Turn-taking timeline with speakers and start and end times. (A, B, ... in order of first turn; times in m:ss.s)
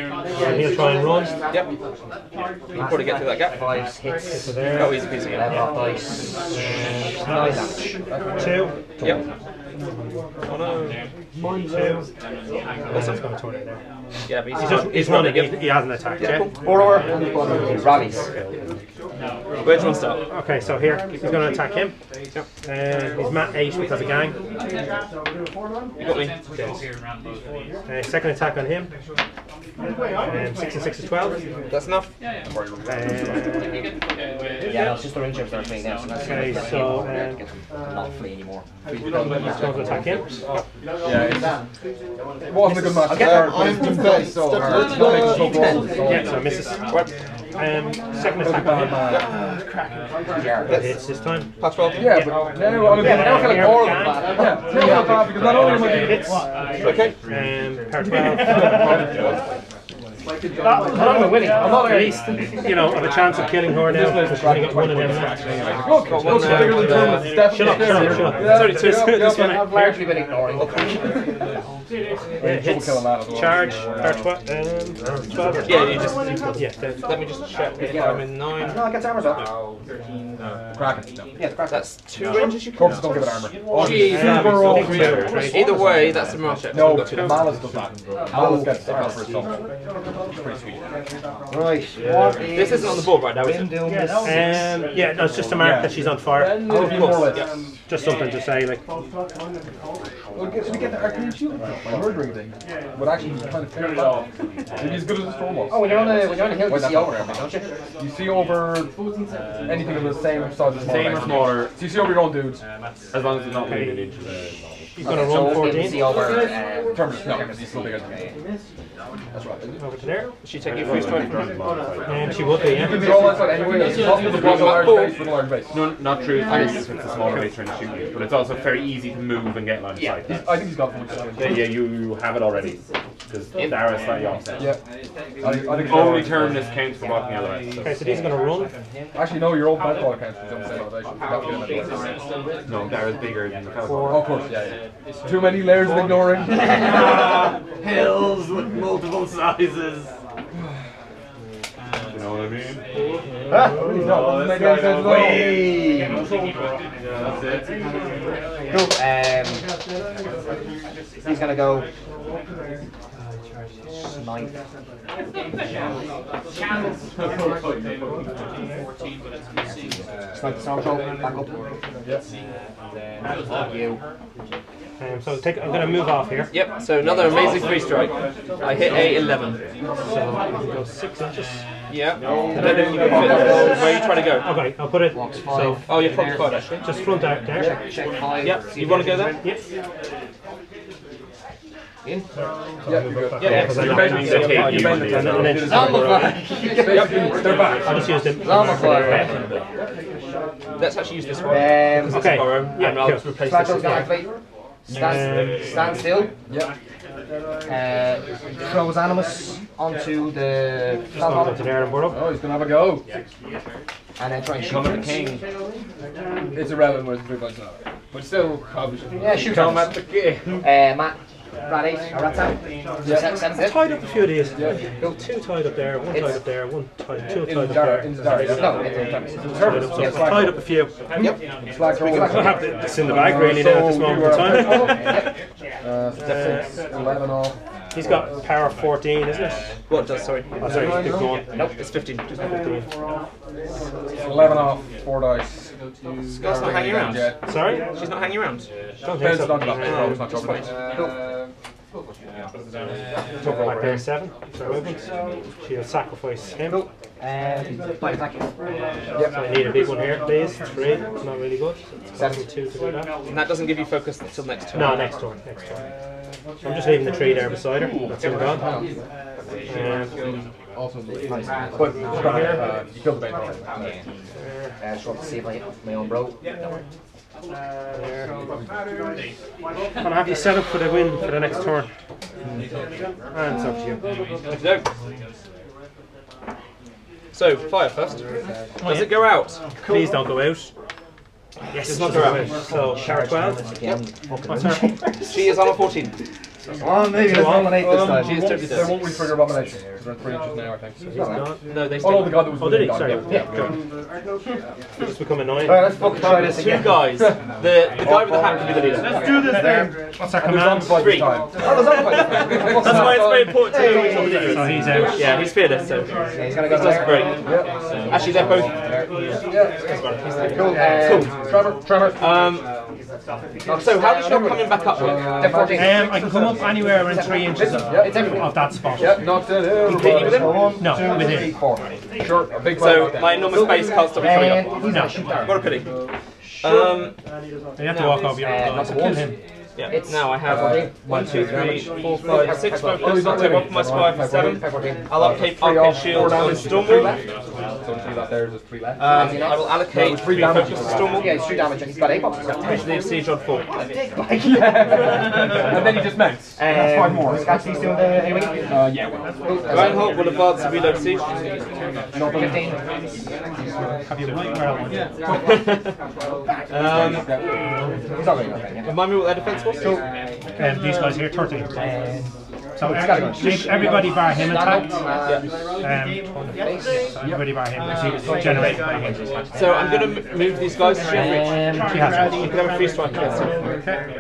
0:00.3-0:01.3 A
0:00.4-0:01.4 B
0:02.7-0:07.9 A
0:02.8-0:03.6 C
0:04.3-0:05.7 B
0:04.7-0:05.6 C
0:07.2-0:08.7 B
0:08.0-0:08.6 D
0:09.0-0:09.2 A
0:10.4-0:11.0 C
0:11.6-0:12.1 B
0:12.9-0:13.2 C
0:12.9-0:13.8 B
0:14.3-0:16.5 C
0:14.5-0:16.5 B
0:16.6-0:18.3 A
0:17.0-0:17.7 D
0:17.2-0:18.2 B
0:19.6-0:20.2 C
0:20.3-0:21.9 B
0:22.6-0:24.4 B
0:26.0-0:26.4 C
0:26.5-0:26.9 B
0:27.9-0:28.9 B
0:30.3-0:31.4 B
0:31.7-0:32.1 C
0:32.5-0:33.6 D
0:32.9-0:33.8 B
0:34.6-0:40.3 A
0:36.2-0:37.4 B
0:38.9-0:40.2 D
0:39.2-0:40.2 B
0:41.0-0:41.5 D
0:42.4-0:46.4 D
0:42.6-0:45.9 C
0:42.8-0:46.1 A
0:46.0-0:46.9 B
0:47.6-0:49.2 B
0:48.4-0:49.2 D
0:49.0-0:49.4 C
0:50.3-0:50.8 A
0:50.6-0:59.1 B
0:50.7-0:50.9 C
0:51.6-0:52.2 C
0:51.9-0:56.3 D
0:52.9-0:55.9 A
0:56.8-0:57.1 C
0:58.4-0:59.4 D
1:00.5-1:03.1 A
1:00.9-1:02.2 D
1:01.6-1:05.5 B
1:03.7-1:09.7 D
1:05.6-1:06.1 A
1:06.0-1:09.2 C
1:06.2-1:10.0 B
1:09.2-1:11.5 A
1:10.6-1:10.9 C
1:12.4-1:13.8 D
1:12.4-1:17.0 B
1:15.3-1:16.6 A
1:15.6-1:18.8 C
1:17.8-1:19.5 A
1:20.7-1:21.3 D
1:21.4-1:22.5 A
1:21.7-1:23.2 C
1:22.6-1:26.1 D
1:23.8-1:25.7 B
1:23.8-1:27.5 C
1:24.0-1:25.5 E
1:26.7-1:29.5 D
1:28.3-1:29.0 A
1:30.3-1:30.8 D
1:31.5-1:34.7 A
1:32.5-1:33.8 C
1:34.2-1:36.7 B
1:35.6-1:37.5 D
1:36.6-1:37.5 C
1:37.9-1:38.8 B
1:40.3-1:45.9 D
1:40.4-1:42.0 A
1:45.7-1:47.7 A
1:46.6-1:47.3 D
1:48.0-1:48.9 D
1:49.6-1:52.6 D
1:50.8-1:51.7 B
1:50.9-1:51.6 E
1:53.1-1:54.6 E
1:53.5-1:54.2 B
1:55.0-1:56.0 B
1:55.0-1:58.3 A
1:56.9-1:58.1 D
1:59.3-2:00.0 D
1:59.8-2:00.3 B
2:00.4-2:01.5 C
2:00.7-2:02.3 E
2:02.0-2:03.1 B
2:02.7-2:06.0 D
2:03.9-2:05.2 C
2:05.7-2:10.5 E
2:06.5-2:06.9 A
2:06.5-2:07.2 C
2:09.9-2:10.2 A
2:10.2-2:11.9 D
2:11.4-2:14.6 E
2:13.5-2:14.2 A
2:14.6-2:14.8 D
2:15.4-2:16.8 D
2:15.7-2:18.3 E
2:17.8-2:18.7 B
2:19.1-2:22.0 D
2:22.7-2:24.3 E
2:23.8-2:24.4 B
2:24.0-2:26.6 D
2:27.8-2:30.0 E
2:32.1-2:32.8 E
2:33.5-2:36.1 A
2:33.8-2:35.7 D
2:34.0-2:35.6 E
2:38.7-2:39.6 A
2:41.2-2:41.9 A
2:43.9-2:44.5 A
2:50.3-2:51.5 A
2:53.4-2:54.0 A
2:55.0-2:56.5 B
2:56.5-2:59.6 C
2:57.0-2:57.6 A
3:00.0-3:01.6 B
3:01.9-3:04.5 C
3:02.2-3:04.0 A
3:02.4-3:03.8 D
3:02.5-3:05.8 B
3:05.1-3:09.4 A
3:05.9-3:06.9 C
3:06.8-3:07.8 B
3:08.4-3:09.4 C
3:12.4-3:16.4 B
3:12.8-3:19.6 D
3:13.4-3:15.3 C
3:13.4-3:15.6 E
3:15.3-3:17.8 A
3:16.8-3:17.7 C
3:17.7-3:19.3 B
3:18.4-3:19.3 A
3:20.8-3:24.0 C
3:21.5-3:22.4 A
3:22.0-3:24.1 B
3:23.4-3:24.3 A
3:24.8-3:26.3 A
3:24.9-3:26.0 B
3:25.0-3:25.6 D
3:27.6-3:31.7 A
3:31.1-3:32.2 B
3:32.1-3:33.0 D
3:34.2-3:35.3 A
3:34.7-3:35.4 C
3:36.5-3:40.0 D
3:39.2-3:40.1 A
3:40.6-3:43.8 A
3:43.0-3:43.4 D
3:43.4-3:48.7 B
3:44.5-3:44.9 D
3:46.1-3:46.4 A
3:47.3-3:50.6 D
3:48.5-3:49.7 A
3:49.6-3:51.3 B
3:51.6-3:55.3 D
3:51.9-3:52.7 A
3:52.0-3:55.3 B
3:55.8-3:57.6 D
3:56.2-3:56.7 B
3:57.9-3:59.8 B
3:59.9-4:00.5 C
4:00.6-4:01.4 B
4:00.6-4:01.4 D
4:01.8-4:02.3 C
4:02.3-4:02.9 B
4:04.2-4:05.7 D
4:06.3-4:07.4 C
4:06.4-4:07.1 A
4:06.5-4:07.4 D
4:07.5-4:07.9 B
4:07.9-4:08.7 C
4:09.0-4:10.3 B
4:09.1-4:10.7 D
4:09.8-4:10.3 C
4:13.4-4:14.1 D
4:13.4-4:16.8 B
4:16.6-4:18.5 A
4:19.3-4:23.1 B
4:22.1-4:22.4 A
4:23.3-4:25.1 C
4:24.7-4:25.8 B
4:26.6-4:28.7 B
4:27.7-4:28.9 D
4:28.2-4:28.4 C
4:29.7-4:30.1 B
4:30.2-4:33.6 D
4:31.2-4:32.2 A
4:32.0-4:32.6 B
4:34.4-4:34.8 B
4:34.8-4:36.8 A
4:37.9-4:38.3 B
4:40.0-4:41.9 B
4:43.3-4:44.0 B
4:44.5-4:44.8 C
4:47.3-4:48.2 C
4:48.2-4:48.6 A
4:48.8-4:49.1 B
4:48.8-4:49.7 C
4:49.8-4:50.7 B
4:51.7-4:53.6 B
4:51.8-4:52.6 C
4:52.1-4:55.8 A
4:54.5-4:55.0 B
4:55.3-4:56.1 C
4:56.8-4:58.8 A
4:57.2-4:58.2 B
4:57.8-5:03.5 D
4:58.1-4:59.1 C
5:01.1-5:03.7 B
5:01.1-5:01.5 A
5:01.7-5:02.5 C
5:05.0-5:05.8 B
5:05.6-5:07.1 A
5:06.2-5:09.2 C
5:07.9-5:13.6 D
5:09.0-5:09.9 A
5:09.0-5:11.2 B
5:10.9-5:17.5 C
5:12.2-5:15.4 A
5:12.9-5:13.4 B
5:14.1-5:15.3 B
5:16.3-5:19.1 A
5:17.4-5:18.7 D
5:18.1-5:18.9 C
5:19.5-5:19.9 D
5:19.8-5:21.4 C
5:20.2-5:21.0 B
5:20.5-5:22.2 A
5:21.3-5:22.1 D
5:22.2-5:22.7 C
5:23.6-5:25.4 C
5:23.6-5:32.0 A
5:24.8-5:26.0 D
5:25.7-5:29.4 B
5:27.6-5:28.3 D
5:29.0-5:30.7 D
5:29.8-5:30.7 C
5:30.8-5:31.6 B
5:32.2-5:33.5 D
5:32.7-5:34.7 C
5:33.5-5:35.6 A
5:34.9-5:35.1 B
5:35.4-5:35.9 C
5:36.4-5:37.0 A
5:36.6-5:37.1 C
5:37.8-5:39.4 B
5:37.9-5:38.4 C
5:38.4-5:39.2 A
5:38.6-5:39.4 D
5:39.8-5:47.1 C
5:39.9-5:41.0 A
5:40.4-5:47.2 D
5:42.2-5:43.5 A
5:44.2-5:45.1 A
5:46.2-5:47.2 A
5:47.8-5:51.2 D
5:49.0-5:51.4 C
5:49.1-5:49.7 A
5:50.9-5:53.0 A
5:52.6-5:53.6 C
5:53.7-5:56.0 A
5:54.4-5:57.7 D
5:56.6-5:58.9 A
5:58.6-5:59.3 D
5:59.4-6:00.2 A
5:59.7-6:01.3 C
6:02.1-6:02.8 D
6:02.2-6:02.8 A
6:03.6-6:03.9 A
6:04.1-6:05.1 B
6:05.2-6:05.9 C
6:06.7-6:07.2 C
6:06.8-6:07.6 D
6:08.1-6:09.1 A
6:08.8-6:10.0 C
6:09.8-6:10.0 A
6:10.6-6:11.7 B
6:11.8-6:15.5 A
6:12.8-6:15.0 B
6:15.8-6:16.5 B
6:16.5-6:17.1 A
6:17.2-6:18.8 B
6:17.2-6:18.8 D
6:18.2-6:20.1 A
6:19.5-6:21.7 C
6:21.0-6:22.4 A
6:21.9-6:22.6 B
6:22.3-6:23.6 C
6:23.0-6:23.5 A
6:23.6-6:24.0 B